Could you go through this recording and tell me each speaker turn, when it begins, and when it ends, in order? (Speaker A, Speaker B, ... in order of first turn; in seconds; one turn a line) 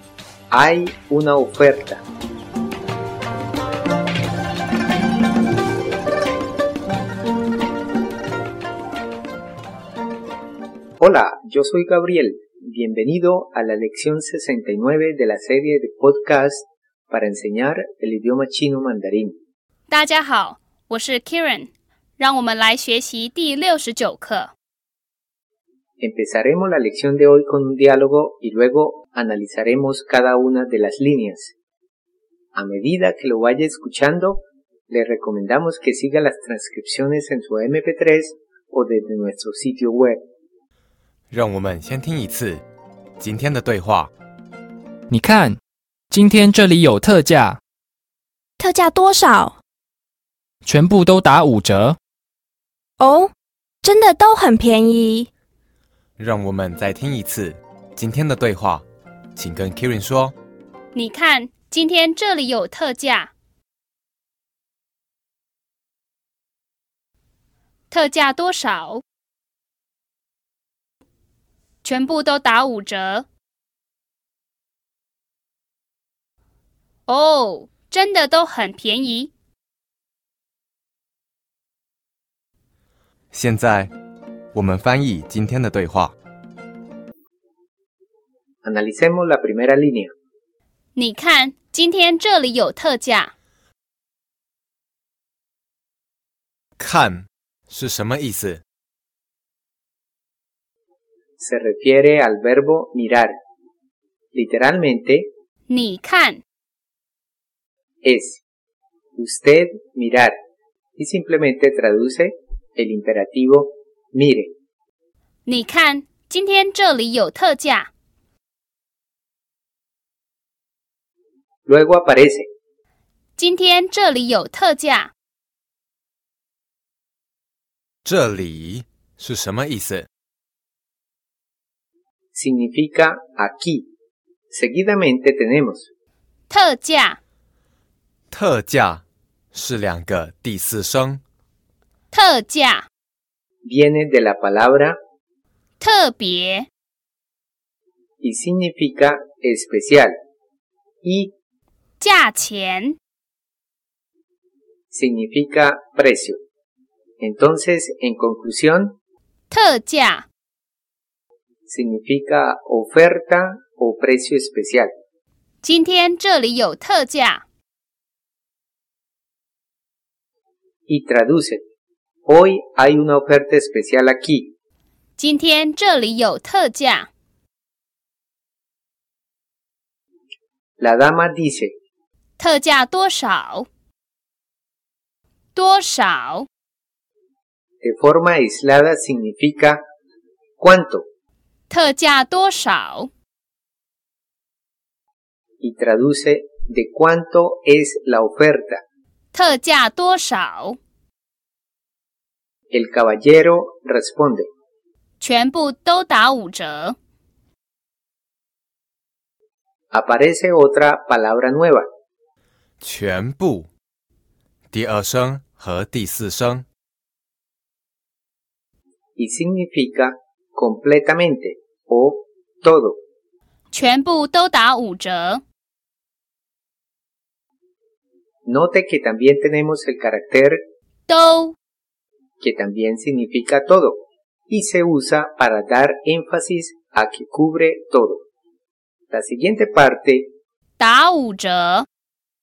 Speaker A: 0.5-2.0
Speaker A: 11.0-19.4
Speaker B: 19.9-24.5
Speaker A: 26.0-31.5
Speaker A: 32.5-40.2
Speaker C: 41.3-42.6
Speaker C: 43.2-44.1
Speaker D: 45.1-47.6
Speaker E: 48.6-49.6
Speaker D: 50.6-52.0
Speaker E: 53.0-53.3
Speaker E: 53.8-55.3
Speaker C: 56.2-58.8
Speaker C: 59.4-60.3
Speaker B: 60.9-63.3
Speaker B: 67.9-69.0
Speaker B: 71.8-73.3
Speaker B: 77.1-79.3
Speaker C: 83.3-83.9
Speaker C: 84.5-86.1
Speaker A: 88.6-90.1
Speaker B: 91.0-93.3
Speaker C: 96.8-98.6
Speaker A: 101.4-103.3
Speaker A: 104.3-105.3
Speaker B: 105.7-106.4
Speaker A: 108.0-108.4
Speaker A: 109.1-110.3
Speaker A: 111.0-114.5
Speaker B: 115.5-117.9
Speaker A: 121.7-122.5
Speaker B: 123.4-125.1
Speaker C: 128.0-130.1
Speaker A: 132.3-133.9
Speaker A: 134.5-135.9
Speaker B: 136.5-137.2
Speaker C: 138.3-141.2
Speaker B: 142.1-142.9
Speaker A: 143.6-145.0
Speaker B: 145.8-146.7
Speaker A: 148.2-150.1
Speaker A: 151.0-151.3
Speaker B: 152.0-153.0
Speaker A: 154.9-156.4
Speaker A: 157.2-159.0
Speaker B: 159.5-160.3
Speaker A: 161.7-164.9
Speaker B: 165.6-167.4
Speaker A: 170.9-171.6
Speaker A: 172.2-174.5
Speaker B: 175.2-177.1
Speaker A: 180.8-181.7
Speaker B: 182.4-183.7
Speaker B: 185.5-186.5
Speaker A: 187.8-189.8
Speaker A: 190.6-191.1
Speaker B: 191.7-193.1
Speaker A: 195.6-198.8
Speaker B: 199.3-200.8
Speaker A: 202.7-204.5
Speaker B: 205.2-206.9
Speaker A: 209.9-211.8
Speaker C: 212.8-213.7
Speaker C: 214.7-216.6
Speaker A: 219.2-223.0
Speaker B: 223.7-225.4
Speaker A: 228.4-230.6
Speaker B: 231.1-231.5
Speaker A: 232.4-238.2
Speaker A: 239.1-240.3
Speaker B: 240.8-241.8